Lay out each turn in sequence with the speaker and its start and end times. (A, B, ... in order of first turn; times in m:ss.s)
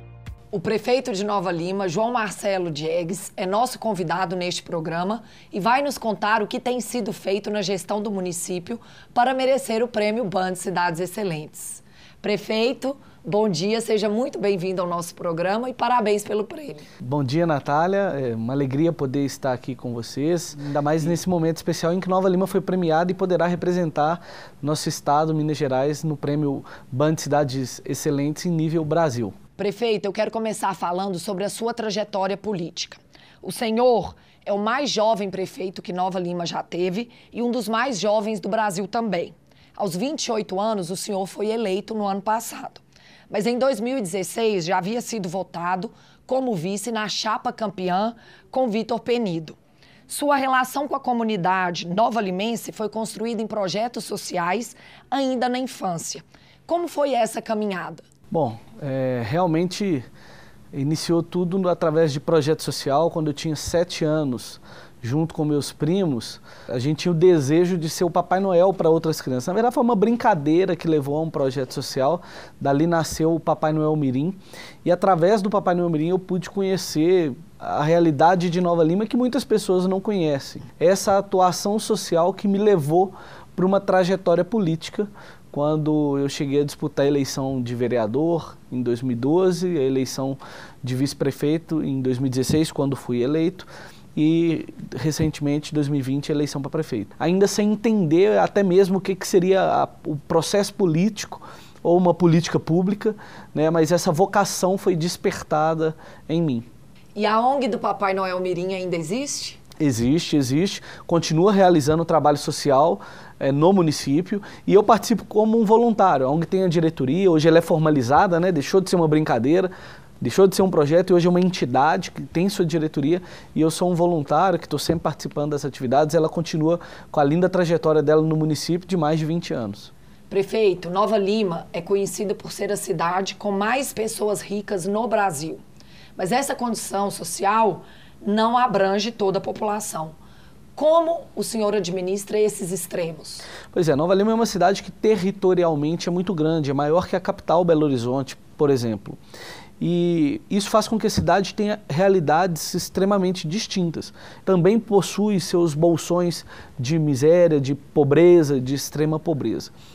0:00.5-0:16.8 A
0:17.0-0:29.4 B
0:29.6-0:49.6 A
0:50.1-0:58.0 A
0:58.3-1:00.0 B
1:00.7-1:46.7 B
1:47.2-1:49.6 A
1:49.8-2:09.9 B
2:10.3-2:15.6 A
2:16.2-2:20.1 A
2:20.8-2:23.4 A
2:23.7-2:29.2 B
2:29.8-2:39.7 B